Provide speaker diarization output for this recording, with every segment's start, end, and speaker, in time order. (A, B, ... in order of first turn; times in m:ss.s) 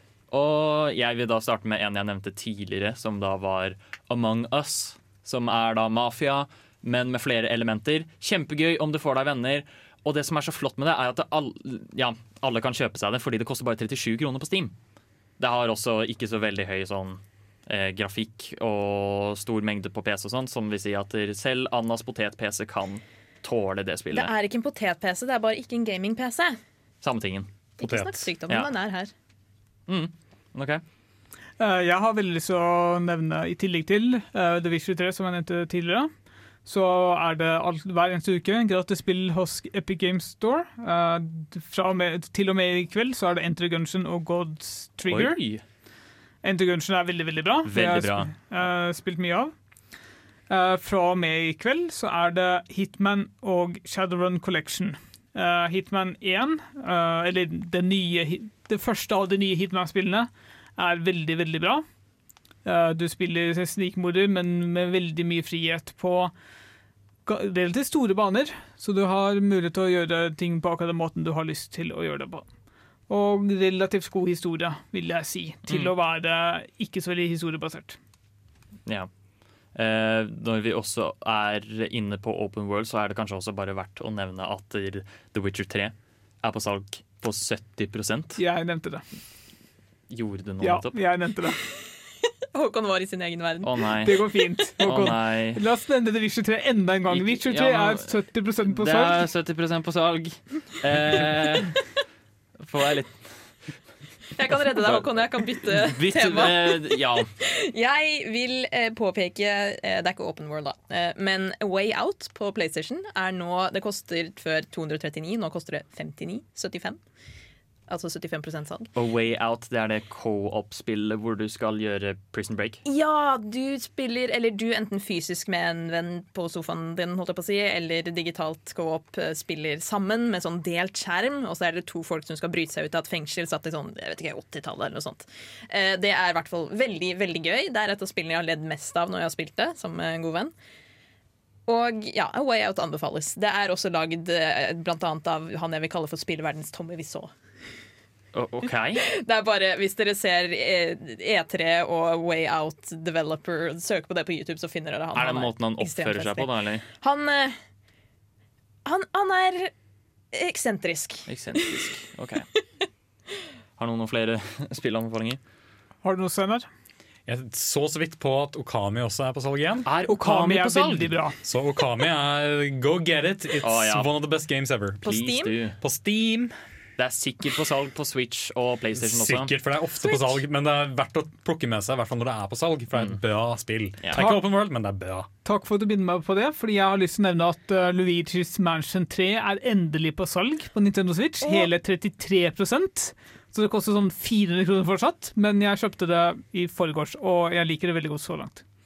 0:00.3-0:14.7 A
0:15.4-0:24.3 A
0:24.1-0:26.6 B
0:27.0-0:27.5 A
0:27.8-0:29.1 B
0:27.8-0:28.3 C
0:29.9-0:30.8 A
0:31.6-0:36.1 D
0:36.6-0:45.4 D
0:45.1-0:45.6 A
0:46.4-0:49.5 D
0:47.6-0:48.3 A
0:50.5-1:01.8 D
1:02.6-1:06.3 D
1:07.2-1:12.4 D
1:13.1-1:18.0 D
1:15.7-1:15.9 A
1:19.7-1:28.4 A
1:28.4-1:29.0 D
1:30.1-1:31.0 A
1:30.6-1:31.6 D
1:32.5-1:33.9 B
1:33.6-1:34.2 A
1:34.0-1:39.2 D
1:34.8-1:35.6 A
1:37.1-1:38.1 A
1:38.6-1:41.8 A
1:42.6-1:43.7 A
1:44.3-1:57.0 B
1:44.7-1:47.3 A
1:57.9-1:58.9 B
1:58.9-2:02.8 A
2:02.8-2:20.5 B
2:21.7-2:27.3 B
2:28.3-2:29.0 A
2:29.0-2:37.6 B
2:35.1-2:36.8 A
2:38.8-2:39.7 B
2:40.3-2:41.9 B
2:41.3-2:42.5 A
2:43.8-2:45.4 A
2:46.0-2:46.6 D
2:47.3-2:49.9 C
2:49.8-2:51.2 A
2:50.1-2:51.4 D
2:51.4-2:55.2 C
2:53.6-2:54.1 A
2:55.0-2:55.6 B
2:55.0-2:55.8 A
2:55.8-2:56.5 C
2:57.0-2:59.5 A
2:59.0-3:05.3 C
3:04.0-3:04.4 A
3:05.4-3:18.6 D